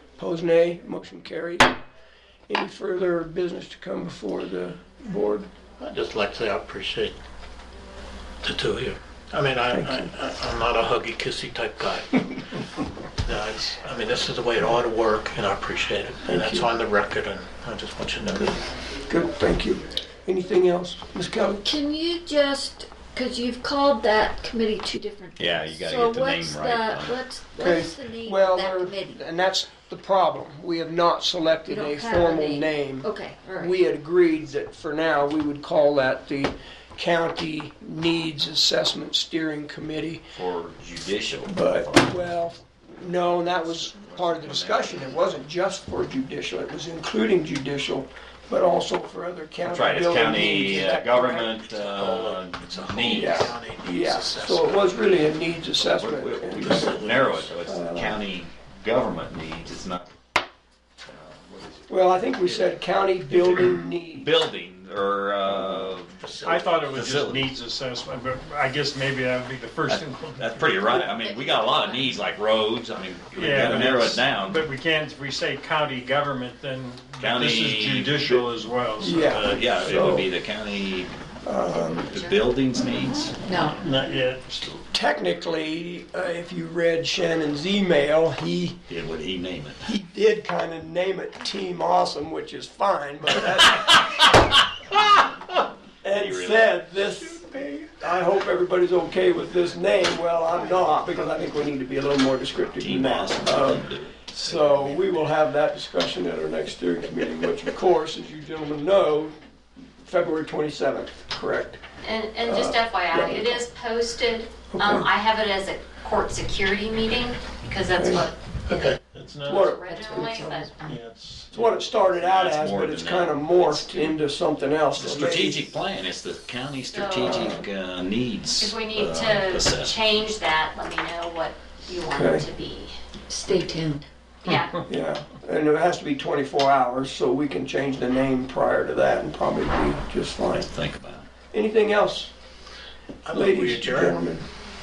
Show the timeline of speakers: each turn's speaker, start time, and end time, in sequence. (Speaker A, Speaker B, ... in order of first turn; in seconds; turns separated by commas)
Speaker A: 0.2-1.7, Speaker A: 2.5-5.5, Speaker B: 5.8-7.2, Speaker B: 8.4-12.5, Speaker A: 9.7-10.1, Speaker B: 13.2-18.6, Speaker A: 16.2-16.7, Speaker A: 19.1-21.6, Speaker C: 21.6-29.2, Speaker D: 25.4-27.2, Speaker A: 27.6-40.3, Speaker C: 31.6-33.8, Speaker D: 40.3-41.5, Speaker A: 41.5-51.5, Speaker D: 43.6-45.3, Speaker D: 49.6-53.6, Speaker B: 51.6-55.4, Speaker A: 53.1-58.2, Speaker D: 55.8-60.1, Speaker B: 56.5-57.5, Speaker D: 61.0-62.8, Speaker A: 61.9-64.3, Speaker D: 63.3-66.3, Speaker B: 65.5-67.1, Speaker E: 66.4-70.7, Speaker D: 66.9-67.5, Speaker D: 69.9-74.7, Speaker C: 71.0-72.1, Speaker E: 73.3-79.7, Speaker D: 77.2-78.5, Speaker A: 79.0-80.3, Speaker D: 79.1-81.1, Speaker A: 81.4-82.1, Speaker F: 81.7-82.5, Speaker D: 82.1-83.7, Speaker C: 83.5-83.8, Speaker B: 83.8-84.4, Speaker E: 84.1-84.7, Speaker A: 84.9-88.8, Speaker D: 88.9-89.9, Speaker A: 89.9-94.3, Speaker A: 96.0-109.3, Speaker D: 96.1-97.1, Speaker D: 102.8-105.2, Speaker A: 110.0-111.8, Speaker F: 112.0-118.9, Speaker A: 112.4-113.6, Speaker A: 114.7-115.1, Speaker A: 117.9-118.3, Speaker B: 118.7-119.8, Speaker A: 119.4-120.7, Speaker F: 119.5-120.7, Speaker C: 119.9-121.0, Speaker B: 120.8-121.7, Speaker A: 121.5-125.6, Speaker D: 121.9-124.2, Speaker D: 124.9-130.0, Speaker F: 126.9-127.5, Speaker A: 127.2-127.6, Speaker F: 128.6-133.0, Speaker A: 132.1-132.4, Speaker C: 133.3-134.6, Speaker F: 134.4-134.8, Speaker A: 134.8-140.7, Speaker D: 140.6-141.3, Speaker A: 141.5-142.3, Speaker B: 143.2-144.2, Speaker A: 143.3-144.4